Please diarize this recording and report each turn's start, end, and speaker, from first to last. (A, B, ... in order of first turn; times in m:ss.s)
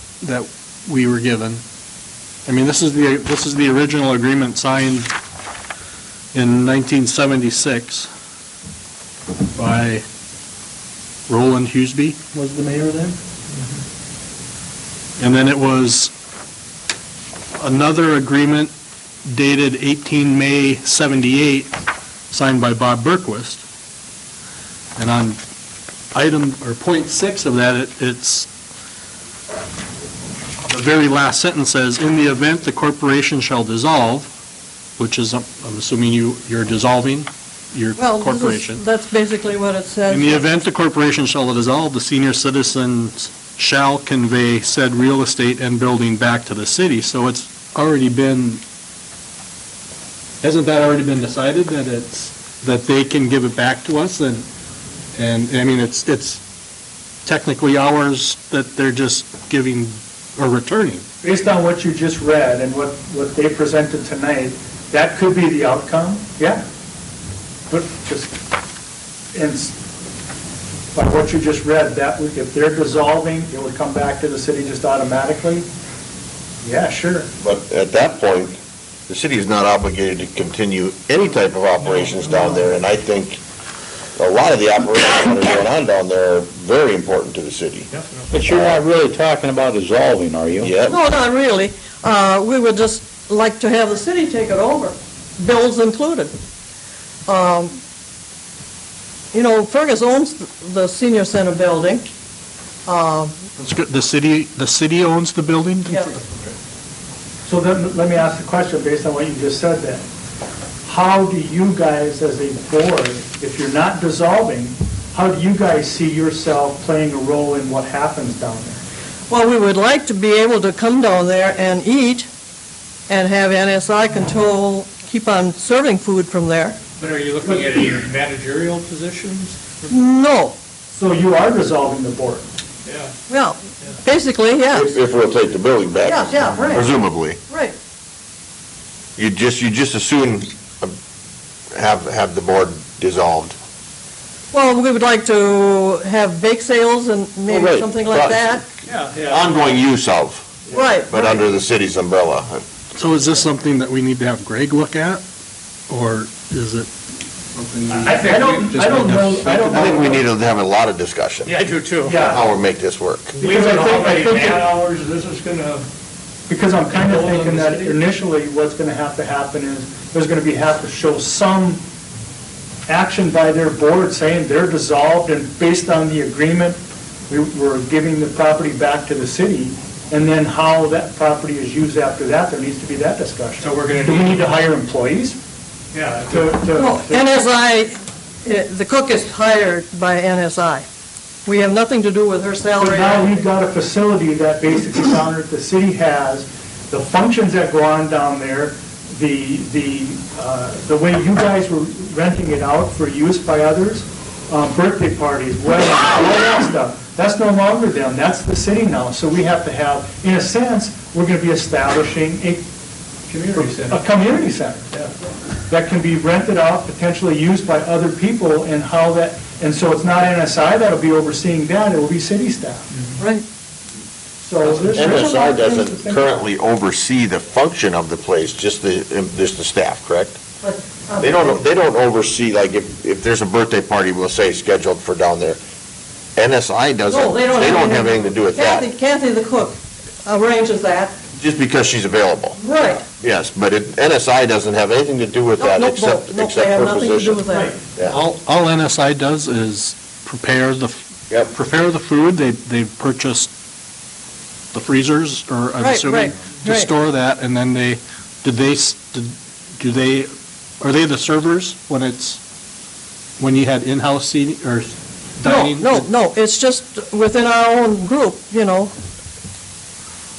0:00.2-0:01.6 A
0:02.4-0:05.1 A
0:06.3-0:08.1 A
0:09.5-0:10.0 A
0:11.3-0:13.2 A
0:15.2-0:16.1 A
0:17.5-0:18.7 A
0:19.2-0:21.8 A
0:22.3-0:23.6 A
0:25.0-0:25.4 A
0:26.1-0:28.5 A
0:30.7-0:34.3 A
0:35.0-0:38.8 A
0:38.0-0:40.6 B
0:40.1-0:48.6 A
0:50.4-0:54.5 A
0:55.1-0:56.4 A
0:57.2-1:01.0 A
1:01.2-1:06.6 C
1:07.7-1:08.4 C
1:09.3-1:09.7 C
1:10.9-1:15.7 C
1:16.6-1:17.3 C
1:17.4-1:23.4 D
1:21.8-1:22.7 E
1:24.2-1:27.9 D
1:27.9-1:28.3 E
1:28.3-1:30.7 F
1:28.5-1:28.8 D
1:30.6-1:31.0 D
1:30.9-1:36.3 B
1:37.3-1:37.8 B
1:39.3-1:42.1 B
1:42.8-1:43.3 B
1:43.6-1:46.5 A
1:45.9-1:46.1 B
1:47.4-1:50.0 C
1:50.8-1:58.8 C
1:59.3-2:02.3 B
2:03.1-2:06.8 B
2:07.0-2:09.9 E
2:07.4-2:07.7 C
2:09.9-2:10.6 B
2:10.9-2:12.4 C
2:12.8-2:13.1 E
2:13.3-2:15.0 B
2:14.7-2:17.4 D
2:16.0-2:16.9 B
2:17.5-2:17.8 B
2:19.2-2:21.0 D
2:21.7-2:23.6 D
2:24.5-2:28.6 B
2:27.5-2:28.6 D
2:28.9-2:29.8 E
2:29.3-2:32.6 D
2:30.7-2:31.3 B
2:32.9-2:35.2 A
2:35.9-2:36.9 A
2:37.6-2:40.1 A
2:37.9-2:39.2 E
2:37.9-2:40.2 C
2:39.7-2:41.6 D
2:41.4-2:42.3 E
2:42.0-2:42.5 C
2:42.2-2:43.4 D
2:43.3-2:45.9 E
2:43.4-2:44.7 C
2:46.5-2:51.8 C
2:46.9-2:48.0 E
2:52.9-3:05.4 C
3:03.6-3:04.5 E
3:05.9-3:06.6 E
3:06.3-3:07.4 C
3:06.7-3:10.8 B
3:11.4-3:13.4 B
3:12.8-3:32.7 C
3:33.3-3:34.0 E
3:33.5-3:34.9 C
3:35.7-3:42.9 C
3:43.2-3:43.4 B
3:44.4-3:46.4 C
3:44.6-3:45.2 E
3:44.9-3:50.4 D
3:50.6-3:51.6 B
3:51.2-3:55.6 D
3:56.4-3:58.9 D
3:57.1-4:01.2 B
4:01.4-4:02.6 D
4:02.6-4:03.0 B
4:03.1-4:07.4 D
4:05.6-4:07.7 B
4:08.1-4:13.5 A
4:14.7-4:22.4 A
4:15.8-4:16.9 B
4:23.4-4:26.1 A
4:25.4-4:28.9 B